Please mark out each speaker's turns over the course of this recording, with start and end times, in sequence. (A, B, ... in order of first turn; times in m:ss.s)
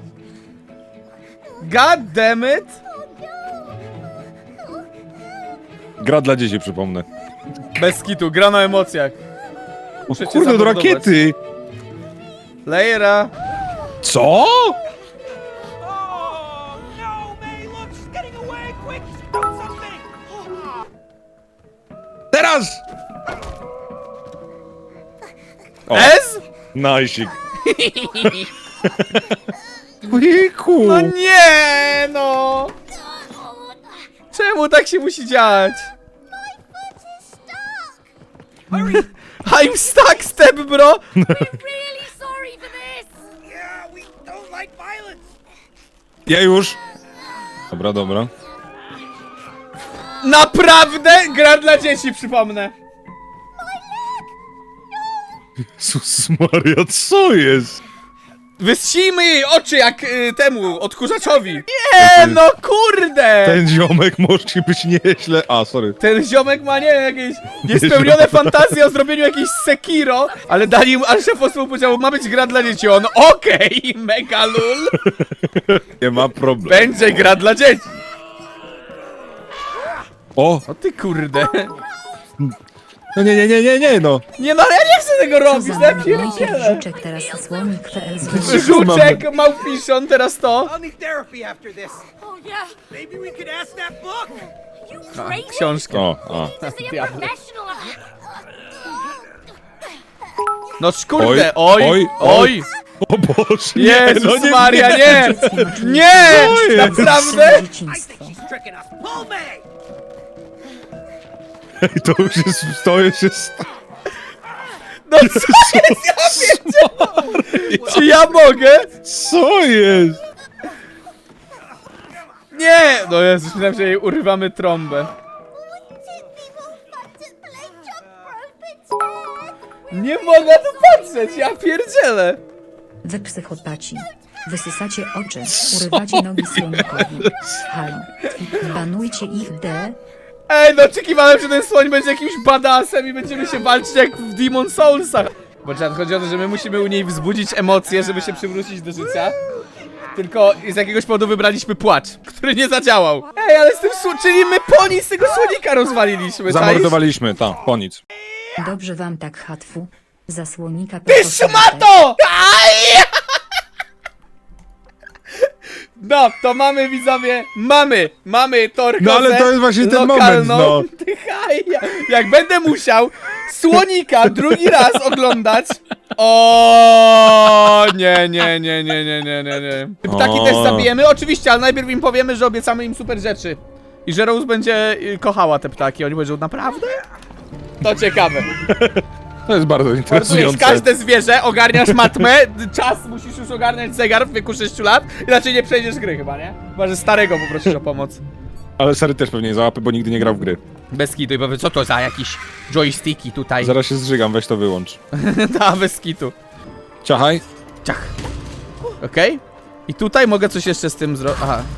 0:01.6-0:02.8 A
0:02.9-0:04.1 B
0:04.6-0:05.1 B
0:06.0-0:07.1 C
0:07.8-0:09.2 A
0:10.1-0:11.4 C
0:10.1-0:11.2 A
0:12.6-0:13.3 A
0:14.0-0:14.8 C
0:15.8-0:20.0 D
0:22.3-0:22.8 C
0:25.9-0:26.2 C
0:25.9-0:26.4 A
0:26.7-0:27.3 C
0:27.6-0:28.5 A
0:28.9-0:29.2 C
0:30.0-0:31.1 C
0:30.8-0:32.7 A
0:33.0-0:34.0 B
0:34.3-0:35.9 A
0:36.3-0:38.0 B
0:38.7-0:41.0 A
0:41.2-0:41.5 C
0:41.3-0:43.1 E
0:43.5-0:45.2 D
0:46.2-0:46.8 C
0:47.7-0:48.3 C
0:50.2-0:52.7 A
0:53.6-0:54.3 B
0:55.7-0:57.8 C
0:58.6-1:03.6 A
1:02.0-1:02.4 C
1:03.4-1:06.0 C
1:06.0-1:15.1 A
1:07.6-1:08.8 C
1:15.1-1:17.2 C
1:16.6-1:17.9 A
1:20.4-1:20.6 C
1:20.7-1:21.7 A
1:23.1-1:24.2 C
1:24.4-1:26.9 A
1:25.4-1:28.9 F
1:27.4-1:27.6 E
1:28.3-1:29.3 C
1:28.3-1:30.7 A
1:30.6-1:32.1 D
1:32.2-1:32.7 E
1:32.9-1:34.5 D
1:34.8-1:38.1 E
1:35.1-1:36.0 A
1:35.9-1:36.5 C
1:36.6-1:37.3 A
1:40.8-1:42.7 A
1:41.2-1:45.6 C
1:43.7-1:47.7 A
1:44.8-1:48.4 F
1:46.2-1:47.4 C
1:47.9-1:49.6 D
1:51.8-1:53.6 C
1:55.0-1:58.9 A
1:55.2-1:58.2 C
1:57.0-1:58.0 D
1:59.0-2:00.2 C
2:02.5-2:05.1 A
2:05.5-2:09.6 B
2:09.9-2:12.4 A
2:13.0-2:20.0 F
2:15.5-2:17.5 C
2:20.5-2:29.4 A
2:30.1-2:37.0 A
2:36.4-2:38.0 C
2:38.6-2:41.9 F
2:41.1-2:43.1 A
2:45.4-3:07.0 A
2:49.0-2:50.9 C
2:54.5-2:54.8 C
3:00.0-3:00.9 C
3:07.8-3:08.5 A
3:08.6-3:10.9 C
3:10.1-3:18.2 A
3:11.8-3:12.2 C
3:18.8-3:20.6 C
3:20.9-3:23.7 A
3:23.6-3:25.0 C
3:25.1-3:26.3 A
3:27.0-3:27.4 C
3:27.8-3:28.1 A
3:29.0-3:31.7 A